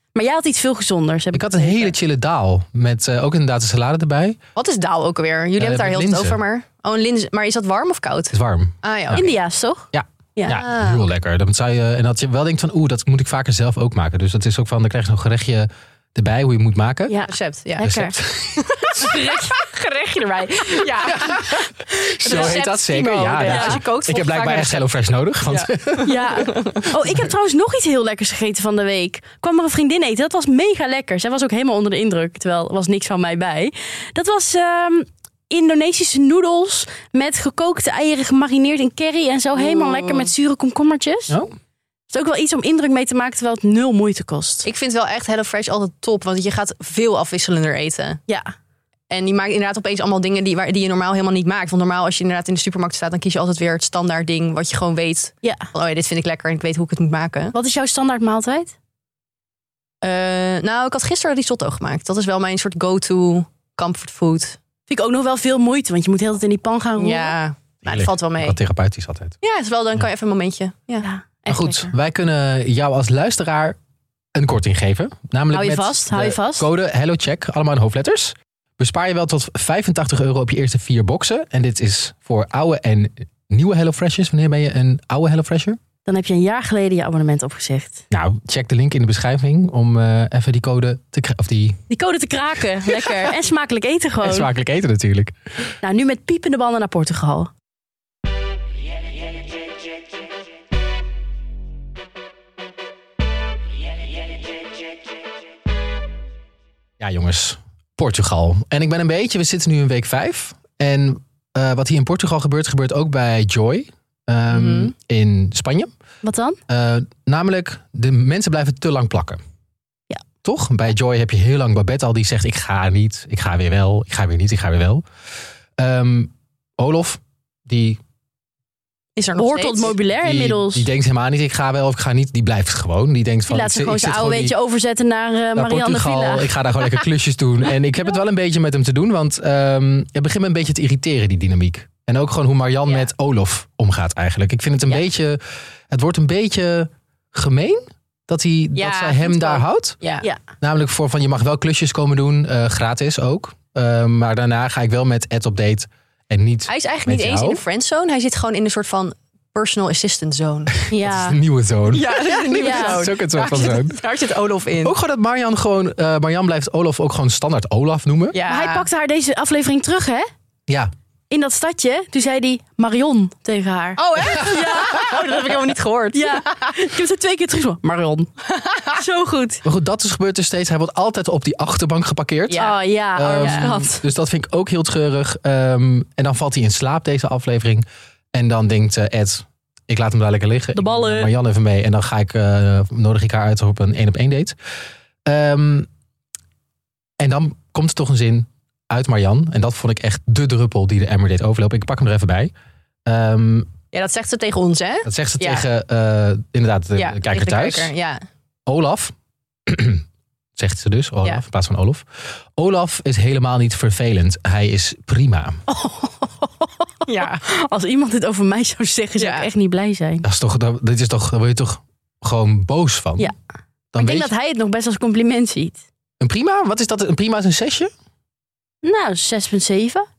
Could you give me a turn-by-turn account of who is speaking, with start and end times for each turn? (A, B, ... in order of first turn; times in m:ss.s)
0:00.2-0:01.9 A
0:01.3-0:04.4 B
0:04.6-0:09.3 C
0:05.6-0:06.4 B
0:08.3-0:09.3 B
0:09.1-0:10.6 A
0:09.9-0:17.2 B
0:10.5-0:11.0 C
0:17.1-0:18.2 A
0:17.3-0:18.0 C
0:17.8-0:18.6 B
0:18.5-0:24.9 C
0:18.9-0:19.5 A
0:21.1-0:26.4 B
0:23.4-0:23.8 A
0:25.5-0:26.9 C
0:26.0-0:41.4 A
0:39.6-0:40.3 C
0:42.1-0:44.7 A
0:44.6-0:48.2 C
0:48.3-0:48.5 A
0:49.1-0:57.5 C
0:57.5-0:58.8 A
1:00.0-1:04.6 C
1:04.9-1:07.4 A
1:07.0-1:08.6 C
1:07.8-1:09.4 B
1:09.4-1:11.1 C
1:11.0-1:11.9 A
1:11.5-1:13.8 B
1:14.4-1:25.8 B
1:15.5-1:16.7 A
1:26.1-1:28.0 A
1:28.1-1:31.8 B
1:31.9-1:34.5 A
1:32.8-1:33.2 B
1:34.2-1:35.4 B
1:35.8-1:37.5 A
1:47.0-1:55.9 B
1:54.5-1:54.9 C
1:56.2-1:56.6 A
1:56.7-1:59.4 B
2:00.4-2:05.0 B
2:05.8-2:08.0 B
2:09.2-2:10.0 C
2:09.4-2:10.9 A
2:10.2-2:14.5 B
2:13.5-2:16.5 A
2:15.6-2:30.0 B
2:28.8-2:30.3 C
2:30.6-2:37.6 B
2:36.7-2:40.9 C
2:40.9-2:44.0 B
2:40.9-2:41.4 A
2:41.9-2:45.0 C
2:42.6-2:43.0 A
2:44.8-2:48.4 B
2:48.3-2:48.9 C
2:48.5-2:50.3 A
2:51.3-2:55.5 A
2:54.0-2:56.8 C
2:56.1-2:58.3 A
2:58.6-2:59.0 C
2:58.9-2:59.6 A
2:59.6-3:14.6 B
3:02.5-3:02.8 C
3:02.6-3:04.0 A
3:03.4-3:03.7 C
3:10.7-3:11.3 A
3:15.2-3:15.9 B
3:17.2-3:22.5 B
3:23.1-3:23.7 B
3:23.9-3:25.7 C
3:25.0-3:27.9 B
3:27.0-3:28.2 C
3:28.7-3:29.1 B
3:29.7-3:30.0 B
3:30.6-3:35.6 B
3:35.7-3:40.3 A
3:37.1-3:37.4 C
3:39.2-3:39.5 C
3:40.2-3:43.3 B
3:43.9-3:44.3 B
3:44.0-3:45.8 A
3:46.2-3:47.9 B
3:48.8-3:50.1 A